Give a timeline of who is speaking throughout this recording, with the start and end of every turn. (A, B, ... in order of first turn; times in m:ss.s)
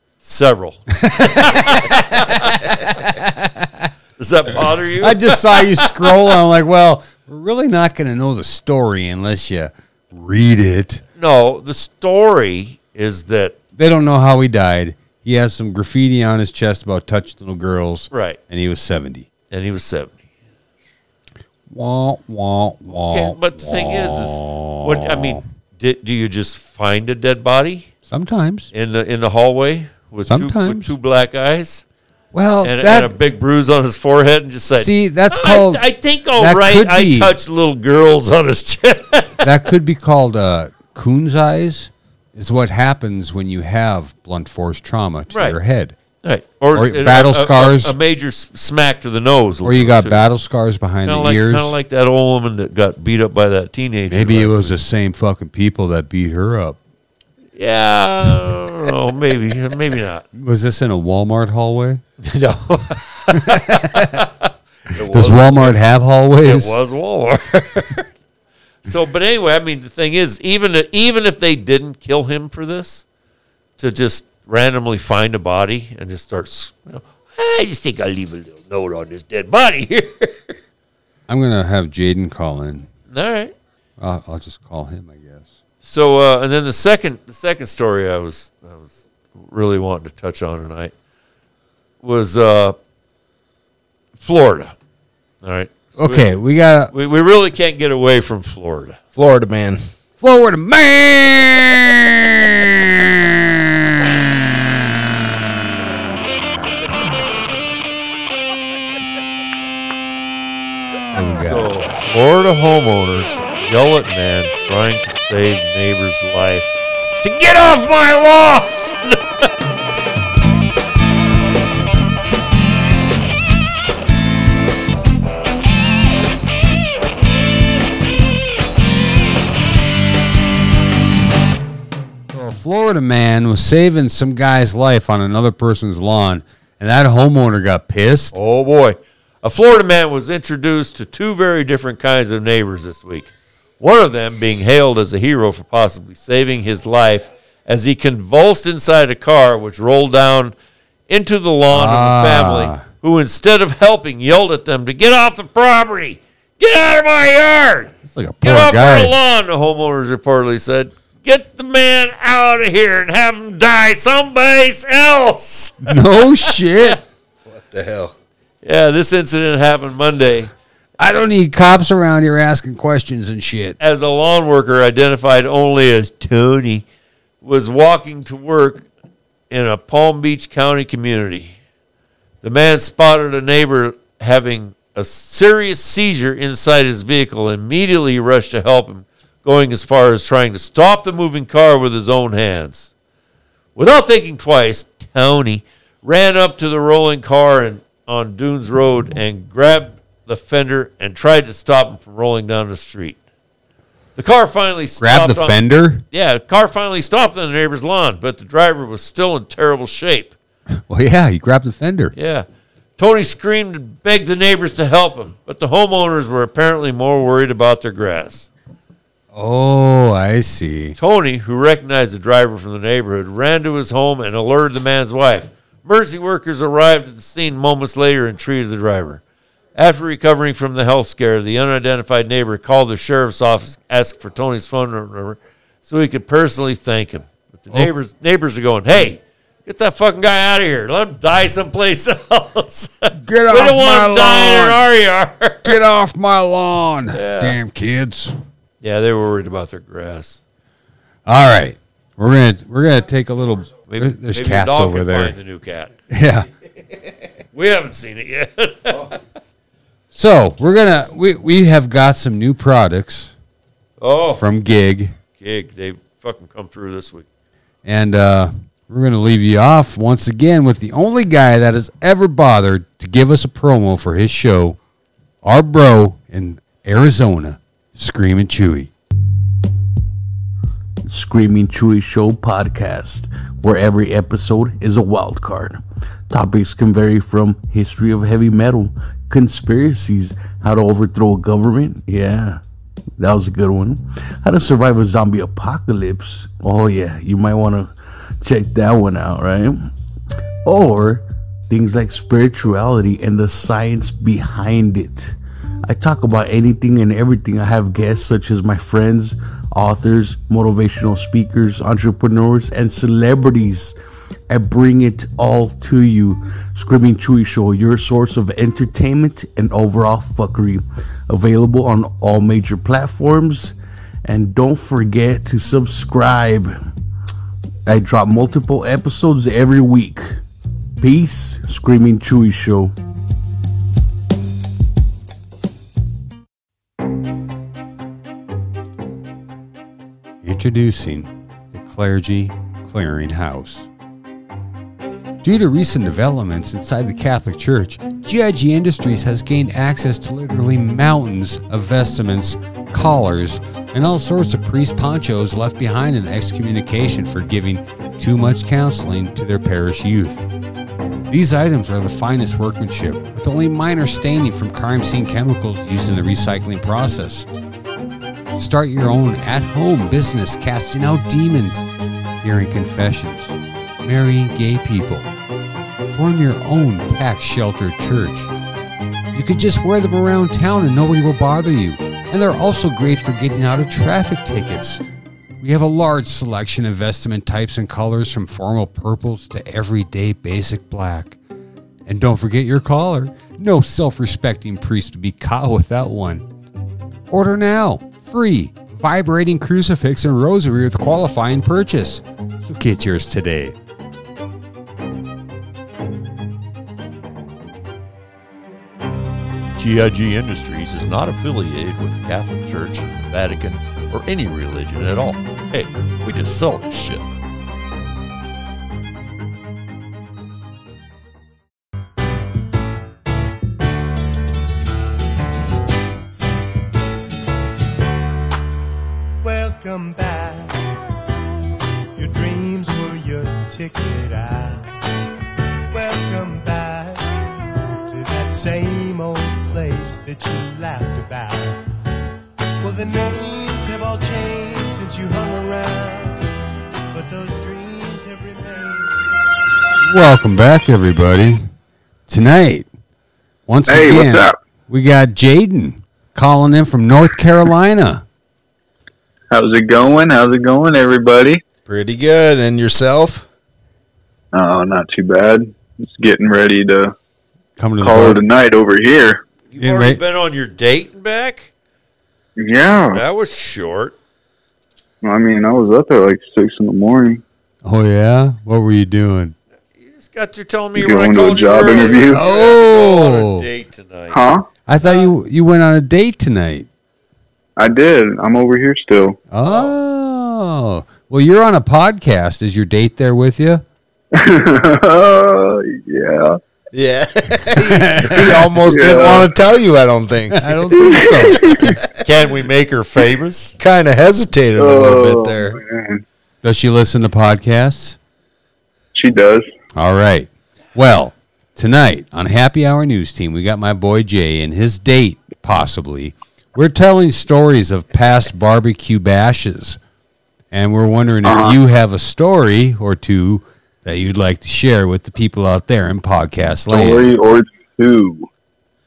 0:00.2-0:03.0 A
0:01.2-0:02.4 B
0:03.0-0:03.9 B
0:04.2-0:06.1 A
0:05.0-0:11.0 B
0:11.2-0:13.6 A
0:13.8-0:19.3 B
0:18.1-0:18.4 A
0:19.5-0:20.2 A
0:21.7-0:25.4 B
0:22.9-0:27.9 A
0:28.1-0:28.7 B
0:28.7-0:31.8 A
0:30.2-0:30.9 B
0:32.3-0:33.1 B
0:32.6-0:39.5 A
0:34.8-0:35.8 B
0:36.4-0:37.3 B
0:39.4-0:46.0 B
0:45.3-0:45.6 A
0:46.2-0:50.2 A
0:46.7-0:47.9 B
0:49.6-0:51.7 B
0:51.0-0:54.7 A
0:54.1-0:56.8 B
0:57.6-1:00.2 A
1:00.3-1:02.0 B
1:02.2-1:05.8 A
1:03.4-1:04.0 B
1:05.1-1:06.7 B
1:06.4-1:08.1 A
1:08.8-1:13.0 A
1:13.8-1:20.5 A
1:21.3-1:22.9 B
1:23.1-1:23.5 A
1:24.0-1:25.5 B
1:25.8-1:30.9 A
1:32.0-1:32.8 A
1:34.2-1:34.7 A
1:35.4-1:36.3 A
1:36.0-1:36.9 B
1:36.9-1:39.0 A
1:39.1-1:39.8 C
1:40.2-1:43.3 B
1:43.9-1:44.7 B
1:51.1-1:51.7 B
1:51.4-1:59.2 A
2:12.3-2:18.4 B
2:18.3-2:30.5 A
2:31.1-2:46.0 A
2:31.7-2:32.8 B
2:38.1-2:39.1 B
2:45.8-2:47.0 B
2:47.4-2:48.1 C
2:48.6-2:50.5 A
2:51.0-2:53.8 B
2:53.8-2:56.8 A
2:57.4-2:58.8 A
2:59.5-3:01.5 A
3:02.4-3:12.9 A
3:13.8-3:23.2 A
3:24.2-3:25.6 A
3:25.0-3:26.0 B
3:26.1-3:30.3 A
3:30.9-3:32.1 B
3:32.1-3:32.4 A
3:33.0-3:38.5 A
3:39.3-3:41.0 B
3:41.0-3:49.2 A
3:49.8-4:05.8 A
4:03.2-4:04.8 B
4:05.6-4:08.3 B
4:07.1-4:07.6 A
4:08.8-4:10.4 A
4:11.2-4:15.3 B
4:13.9-4:15.9 A
4:16.1-4:16.5 B
4:17.5-4:19.2 A
4:20.1-4:23.3 B
4:24.0-4:24.4 A
4:24.4-4:25.1 B
4:25.4-4:27.2 A
4:27.8-4:34.8 B
4:35.4-4:38.9 B
4:41.1-4:52.6 D
4:53.2-4:59.8 D
5:00.6-5:13.9 D
5:14.5-5:26.7 D
5:27.8-5:30.4 D
5:31.0-5:32.9 D
5:40.4-5:43.9 B
5:45.4-6:00.4 B
6:01.3-6:07.5 B
6:08.6-6:11.8 B
6:12.4-6:15.3 B
6:16.1-6:18.5 B
6:19.3-6:25.0 B
6:25.6-6:31.4 B
6:32.1-6:36.4 B
6:37.3-6:43.7 B
6:49.8-6:57.3 A
7:09.4-7:10.9 E
7:12.1-7:15.0 E
7:15.9-7:17.4 E
7:18.1-7:21.8 E
7:22.8-7:26.6 E
7:27.1-7:29.3 E
7:30.0-7:31.7 B
7:32.3-7:32.9 B
7:33.7-7:38.2 B
7:33.9-7:34.6 F
7:39.5-7:41.6 F
7:41.8-7:43.4 C
7:44.5-7:47.1 F
7:47.8-7:48.4 B
7:48.0-7:49.4 F
7:49.7-7:51.7 A
7:49.8-7:50.2 B
7:52.6-7:53.2 F
7:53.0-7:54.2 A
7:55.2-7:57.4 F
7:57.8-7:59.5 B
8:00.0-8:04.4 A
8:01.0-8:02.4 F
8:02.3-8:03.6 B
8:04.3-8:04.6 F
8:04.9-8:06.9 B
8:07.8-8:09.4 F
8:09.5-8:13.8 B
8:09.6-8:09.9 A
8:14.3-8:16.6 F
8:16.9-8:20.8 C
8:17.8-8:18.7 B
8:18.8-8:19.5 F
8:20.5-8:22.0 B
8:21.0-8:21.9 F
8:22.2-8:23.7 A
8:23.8-8:25.8 C
8:24.8-8:26.2 F
8:26.6-8:28.2 B
8:29.1-8:29.6 F
8:30.0-8:40.0 B
8:40.7-8:47.3 B
8:41.4-8:41.8 F
8:46.9-8:48.5 F